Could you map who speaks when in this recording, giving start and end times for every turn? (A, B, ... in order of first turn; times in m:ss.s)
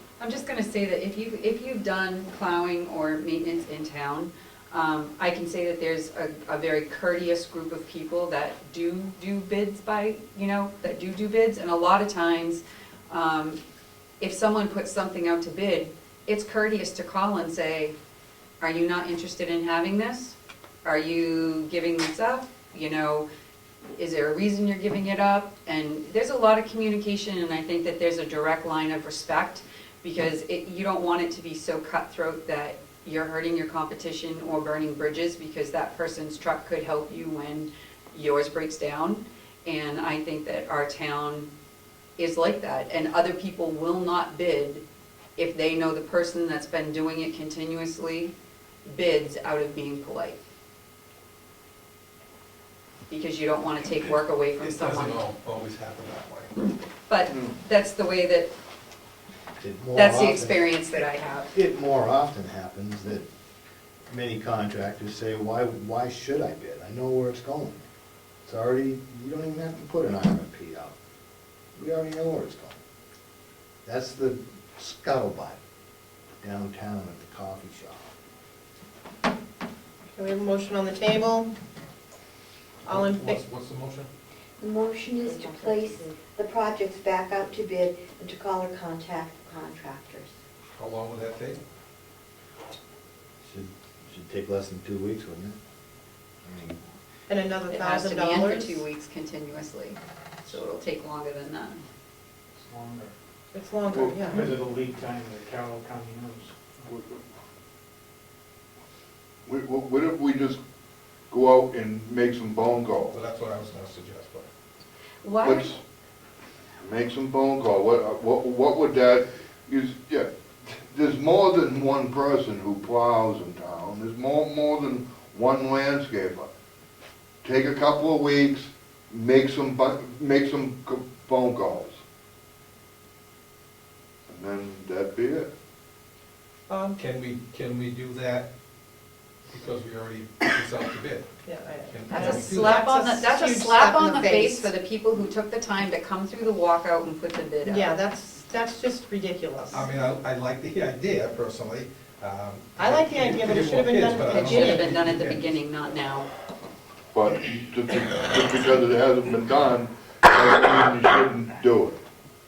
0:00.2-0:13.6 A
0:14.2-0:17.9 A
0:18.6-0:23.2 A
0:24.0-0:41.5 A
0:42.2-0:44.8 A
0:45.4-0:48.3 A
0:48.8-0:50.4 A
0:53.1-0:55.2 A
0:54.0-0:56.7 B
0:57.1-0:58.5 A
0:59.6-1:00.8 C
0:59.9-1:01.5 A
1:01.5-1:03.2 C
1:04.1-1:07.8 C
1:08.4-1:10.9 C
1:11.7-1:12.8 C
1:13.8-1:15.6 C
1:16.4-1:18.1 C
1:20.1-1:21.5 D
1:22.8-1:23.4 D
1:22.9-1:24.1 B
1:24.6-1:30.3 E
1:30.7-1:31.6 B
1:33.4-1:35.6 C
1:36.4-1:36.8 C
1:37.3-1:38.8 D
1:37.7-1:41.8 A
1:42.5-1:43.1 F
1:43.5-1:44.5 D
1:43.9-1:44.5 G
1:44.3-1:46.7 F
1:46.8-1:47.2 G
1:49.4-1:50.6 G
1:51.3-1:53.1 G
1:53.1-1:54.5 B
1:55.2-1:55.7 A
1:55.4-1:55.8 G
1:56.8-2:06.5 G
2:07.4-2:12.0 G
2:14.3-2:15.5 G
2:16.7-2:17.0 D
2:17.0-2:18.5 B
2:19.4-2:21.3 B
2:21.4-2:24.7 D
2:21.8-2:22.8 B
2:22.1-2:27.9 A
2:27.6-2:29.9 D
2:29.7-2:35.5 B
2:32.8-2:34.9 D
2:34.3-2:36.3 A
2:37.1-2:42.0 G